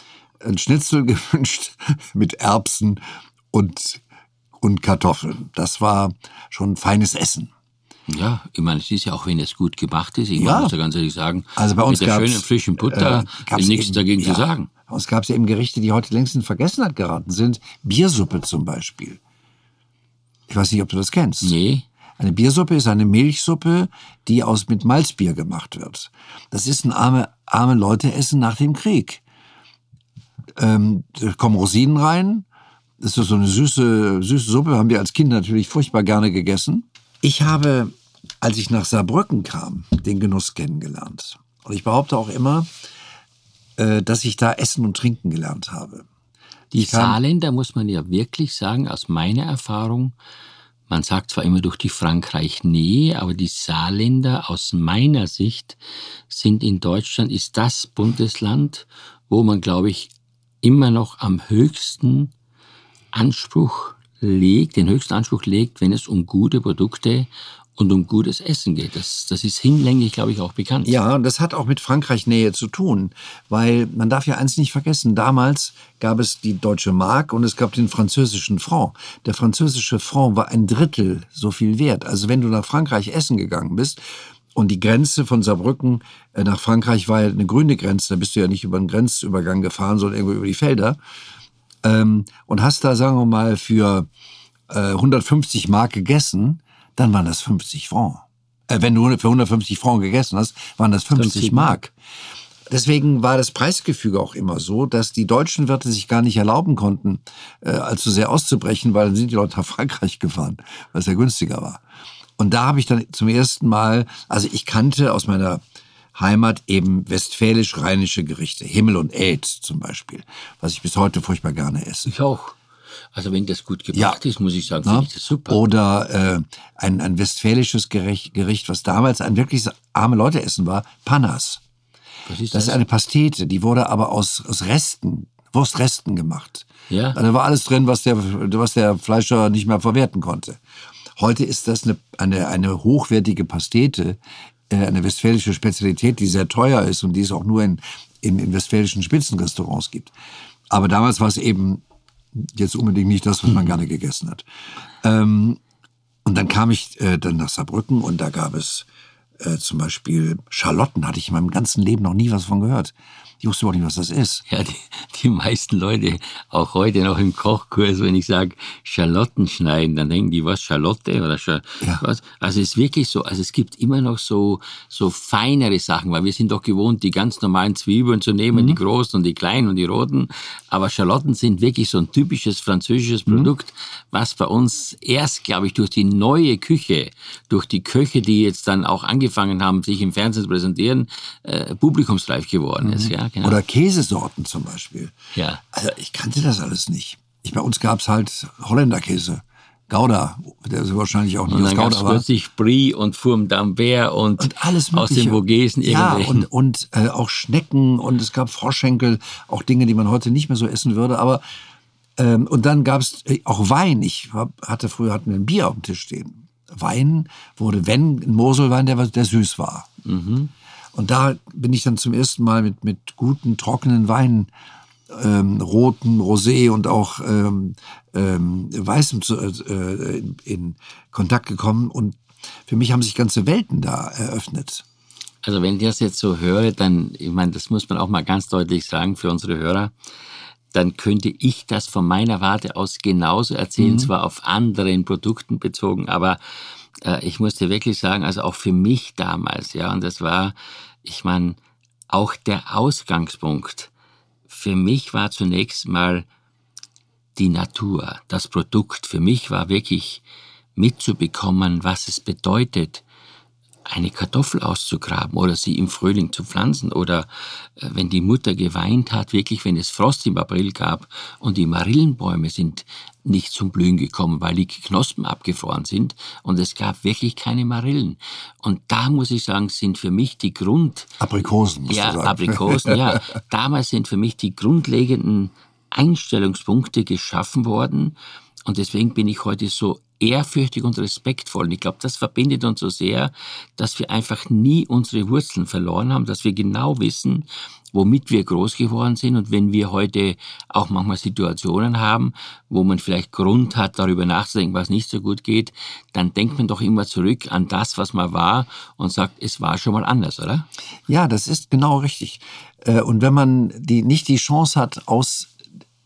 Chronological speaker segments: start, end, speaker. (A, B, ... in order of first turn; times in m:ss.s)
0:00.4-0:03.0 A
0:03.5-0:04.0 A
0:04.6-0:07.5 A
0:08.1-0:14.7 B
0:10.4-0:10.7 A
0:11.6-0:19.2 A
0:20.5-0:21.6 A
0:21.4-0:21.8 B
0:22.2-0:29.2 A
0:30.6-0:32.4 A
0:33.0-0:42.7 A
0:43.8-0:46.0 A
0:46.7-0:50.1 B
0:46.8-0:47.2 A
0:50.9-0:55.8 B
0:56.3-1:00.1 B
1:00.6-1:02.3 B
1:03.1-1:10.9 B
1:10.8-1:24.0 A
1:24.5-1:31.0 A
1:31.8-1:34.1 A
1:34.7-1:41.9 A
1:41.1-1:41.8 B
1:42.7-1:51.8 A
1:52.4-1:55.6 A
1:56.1-2:02.1 A
2:02.1-2:02.5 B
2:03.1-2:05.6 B
2:03.9-2:04.2 A
2:04.8-2:11.6 A
2:12.3-2:12.8 B
2:12.5-2:20.6 A
2:16.9-2:17.2 B
2:21.2-2:24.2 A
2:24.7-2:30.1 A
2:30.7-2:31.8 A
2:32.3-2:34.4 A
2:35.0-2:35.6 A
2:36.2-2:38.8 A
2:39.4-2:44.4 A
2:44.5-3:13.6 B
2:58.5-2:58.8 A
3:12.8-3:15.1 A
3:15.3-3:15.6 B
3:15.7-3:22.2 A
3:21.5-3:26.5 B
3:24.4-3:31.4 A
3:32.2-3:39.9 A
3:40.0-3:40.5 B
3:40.9-3:44.5 A
3:45.1-3:52.2 A
3:52.7-3:54.8 A
3:55.4-3:59.9 B
4:00.7-4:06.4 B
4:03.8-4:04.1 A
4:07.0-4:11.6 B
4:12.1-4:13.9 B
4:14.5-4:16.2 B
4:17.4-4:20.2 B
4:20.8-4:23.0 B
4:23.9-4:41.1 B
4:41.2-4:43.2 A
4:41.9-5:10.7 B
5:11.1-5:15.5 A